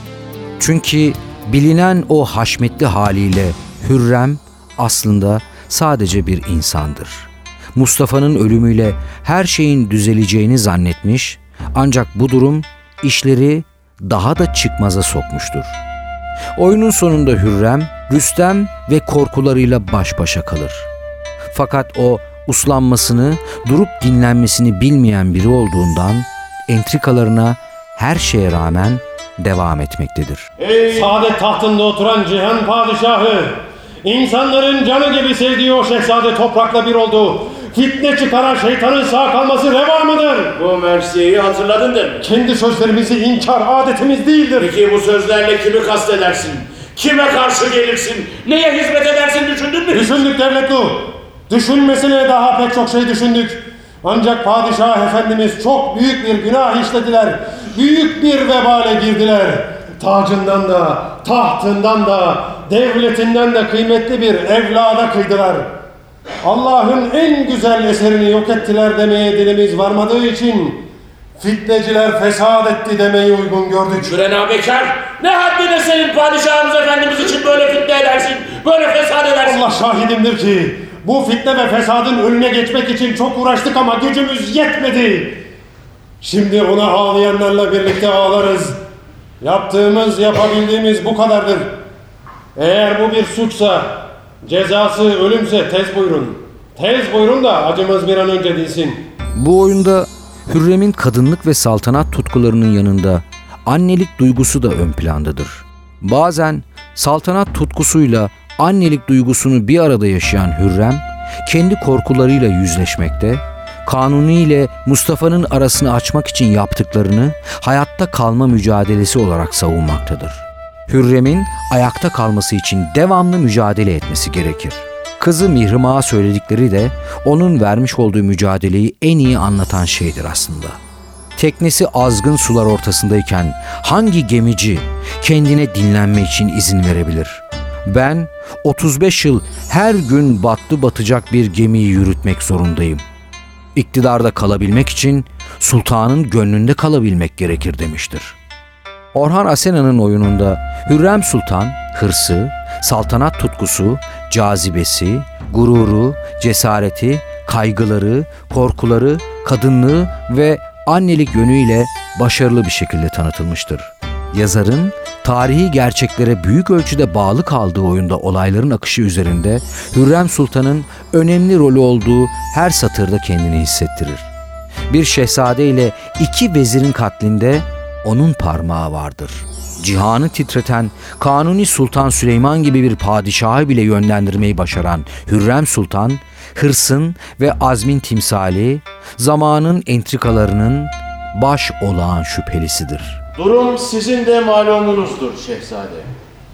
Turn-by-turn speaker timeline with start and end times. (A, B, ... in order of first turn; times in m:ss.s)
0:00.6-0:15.8 A
0:16.6-0:20.9 A
0:21.5-0:30.5 A
0:30.6-0:31.2 B
0:30.9-0:40.5 C
0:40.5-0:42.2 B
0:42.2-0:44.7 C
0:44.6-0:50.2 B
0:49.9-1:05.7 C
1:06.4-1:10.8 C
1:11.4-1:14.1 C
1:14.0-1:19.8 B
1:19.4-1:25.4 C
1:26.2-1:28.8 C
1:29.4-1:31.7 C
1:32.6-1:33.9 C
1:34.4-1:39.0 C
1:39.4-2:10.8 A
2:11.4-2:23.0 A
2:23.7-2:28.4 A
2:29.1-2:54.3 A
2:54.9-3:13.2 A
3:13.4-3:16.1 B